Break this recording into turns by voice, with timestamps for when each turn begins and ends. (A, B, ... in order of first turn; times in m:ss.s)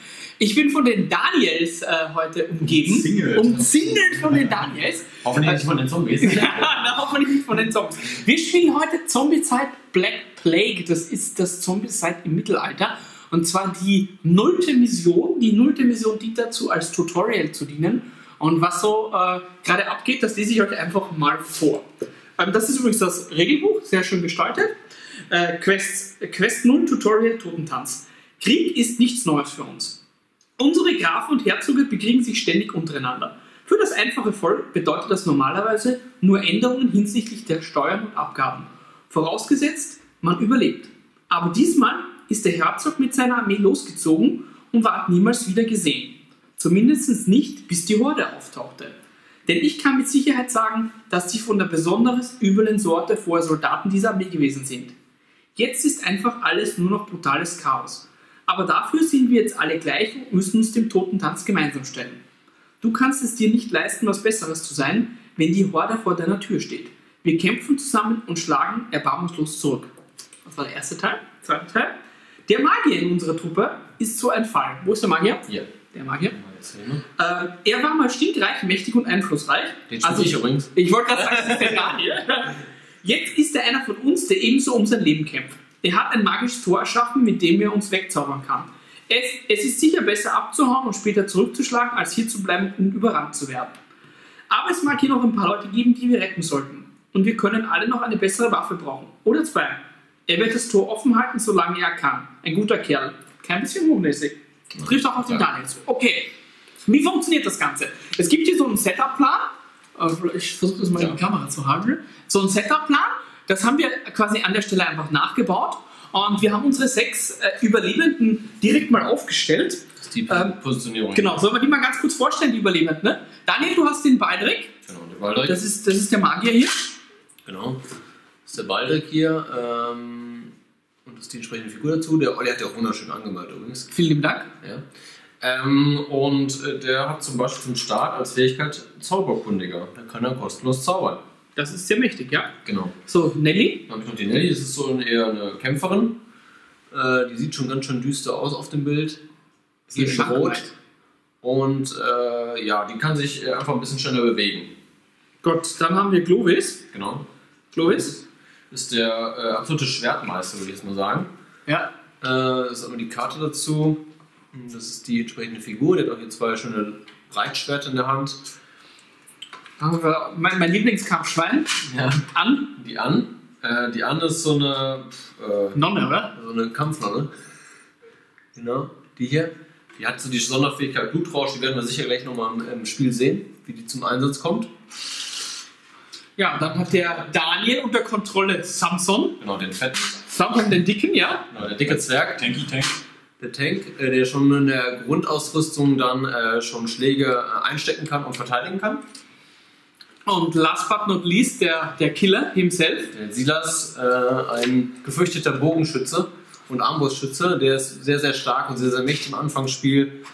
0:00.4-0:05.6 A
0:02.6-0:04.7 B
0:05.2-0:07.0 C
0:06.2-0:21.8 A
0:22.4-0:24.7 A
0:25.3-0:30.0 A
0:30.6-0:54.9 A
0:55.5-1:02.2 A
1:02.8-1:09.9 A
1:10.4-1:16.3 A
1:16.2-1:17.0 C
1:17.2-1:33.8 A
1:19.9-1:21.9 C
1:34.5-1:46.3 A
1:44.7-1:45.4 C
1:46.8-2:00.6 A
2:00.0-2:01.4 C
2:01.1-2:04.7 A
2:04.8-2:05.6 C
2:05.4-2:06.9 A
2:07.4-2:07.8 C
2:08.5-2:10.5 C
2:11.0-2:13.9 C
2:13.9-2:14.5 A
2:15.4-2:21.2 C
2:21.6-2:22.5 A
2:22.6-2:22.9 C
2:23.1-2:23.8 A
2:23.9-2:26.2 C
2:26.9-2:29.2 C
2:29.9-2:30.7 C
2:29.9-2:30.6 A
2:31.4-2:34.7 C
2:35.4-2:36.8 A
2:36.9-2:37.2 C
2:37.7-2:38.2 A
2:37.9-2:38.2 C
2:38.7-2:41.3 C
2:42.2-2:48.4 C
2:49.8-2:52.7 A
2:51.9-2:57.3 C
2:55.7-2:56.3 A
2:58.5-3:04.7 C
3:06.4-3:09.4 A
3:09.4-3:10.2 C
3:10.3-3:11.4 A
3:11.5-3:12.5 C
3:11.8-3:13.0 B
3:13.4-3:19.0 C
3:20.2-3:23.1 A
3:23.1-3:30.2 C